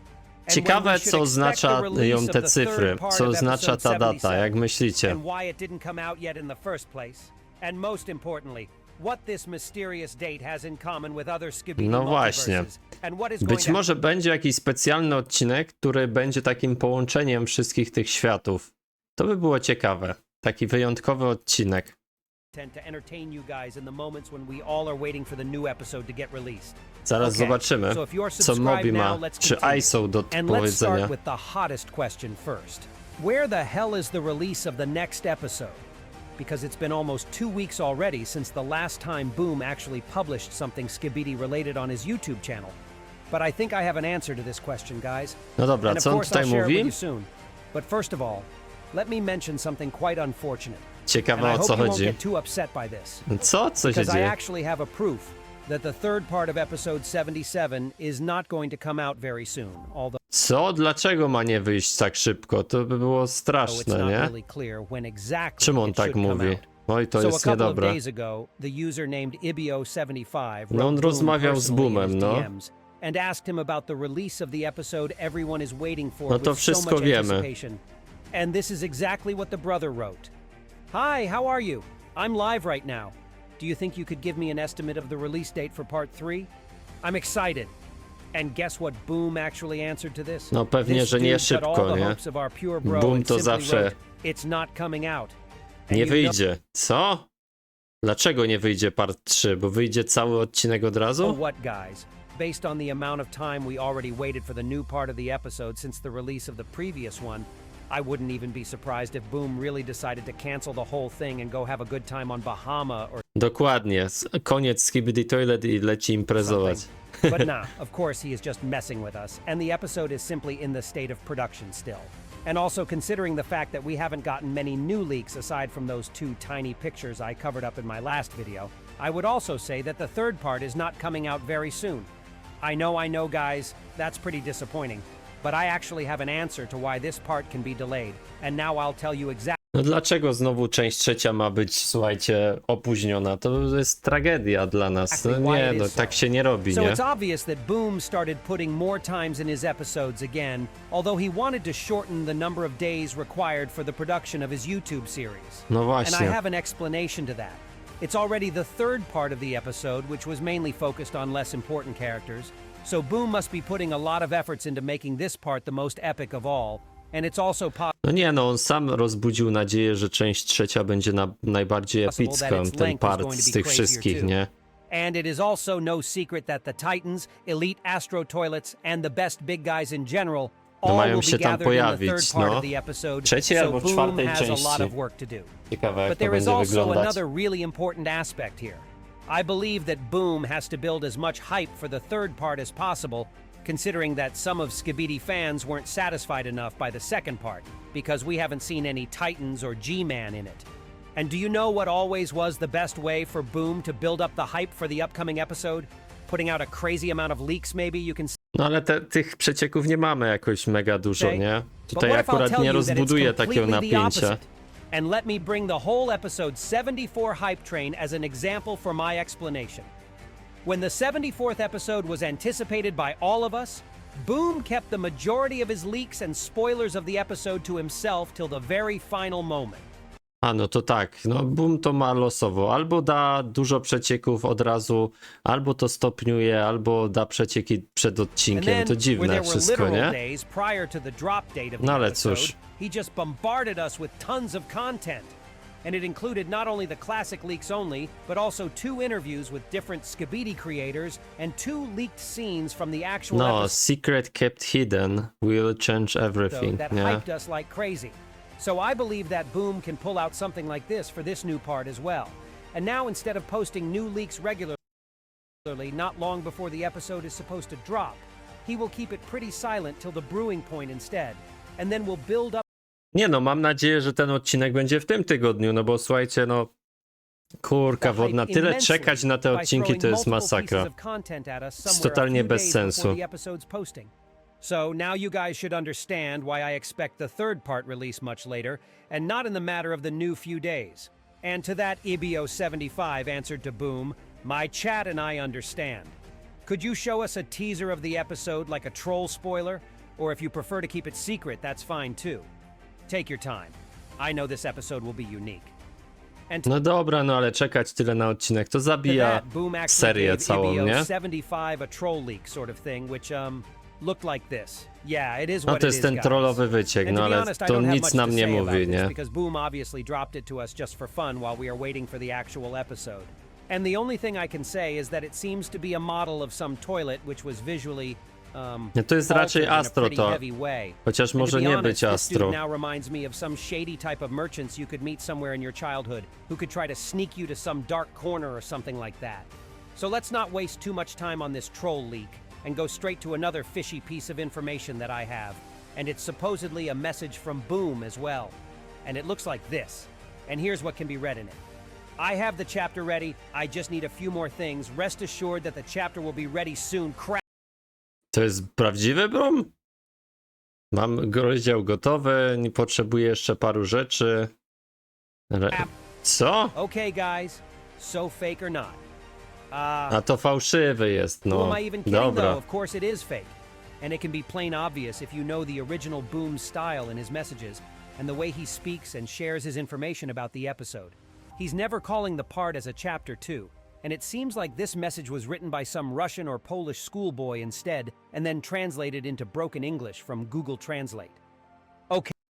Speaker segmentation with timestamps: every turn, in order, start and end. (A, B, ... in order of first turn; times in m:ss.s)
0:00.5-0:04.5 A
0:00.5-0:05.2 B
0:05.0-0:13.8 A
0:11.8-0:12.7 B
0:13.4-0:21.9 B
0:22.5-0:35.8 A
0:27.0-0:31.1 B
0:36.4-0:42.8 A
0:43.3-0:53.3 A
0:45.6-0:46.9 B
0:51.1-0:52.2 B
0:53.2-0:54.3 B
0:53.8-1:00.2 A
1:00.3-1:04.3 B
1:03.6-1:17.8 A
1:05.6-1:08.0 B
1:10.7-1:12.5 B
1:16.3-1:17.5 B
1:18.3-1:20.3 A
1:20.9-1:26.5 A
1:27.0-1:27.7 A
1:28.3-1:35.4 A
1:30.5-1:32.2 B
1:32.8-1:33.9 B
1:35.9-1:36.4 A
1:35.9-1:37.3 B
1:38.0-1:41.4 B
1:41.2-1:53.2 A
1:53.4-1:57.5 B
1:56.4-2:12.1 A
2:12.6-2:19.6 A
2:19.7-2:27.0 B
2:25.1-2:47.9 A
2:35.7-2:36.4 B
2:48.0-2:54.5 B
2:52.1-2:54.3 A
2:54.9-3:05.5 A
3:00.8-3:02.7 B
3:03.2-3:04.9 B
3:05.7-3:07.2 B
3:06.1-3:28.3 A
3:28.5-3:34.4 B
3:31.2-3:39.9 A
3:40.6-3:49.8 A
3:50.4-4:00.2 B
3:58.5-4:13.8 A
4:01.8-4:02.5 B
4:13.3-4:17.2 B
4:16.5-4:24.8 A
4:25.6-4:32.6 A
4:33.1-4:36.7 B
4:37.6-4:40.9 B
4:38.0-5:02.5 A
4:41.8-4:43.2 B
5:03.1-5:05.7 A
5:06.6-5:11.1 B
5:09.0-5:51.6 A
5:15.6-5:19.1 B
5:28.9-5:30.4 B
5:31.0-5:32.6 B
5:52.2-5:57.4 A
5:58.3-5:59.7 B
6:00.9-6:04.5 B
6:05.5-6:06.7 B
6:06.7-6:09.0 A
6:09.7-6:10.2 A
6:10.1-6:12.6 B
6:11.5-6:31.4 A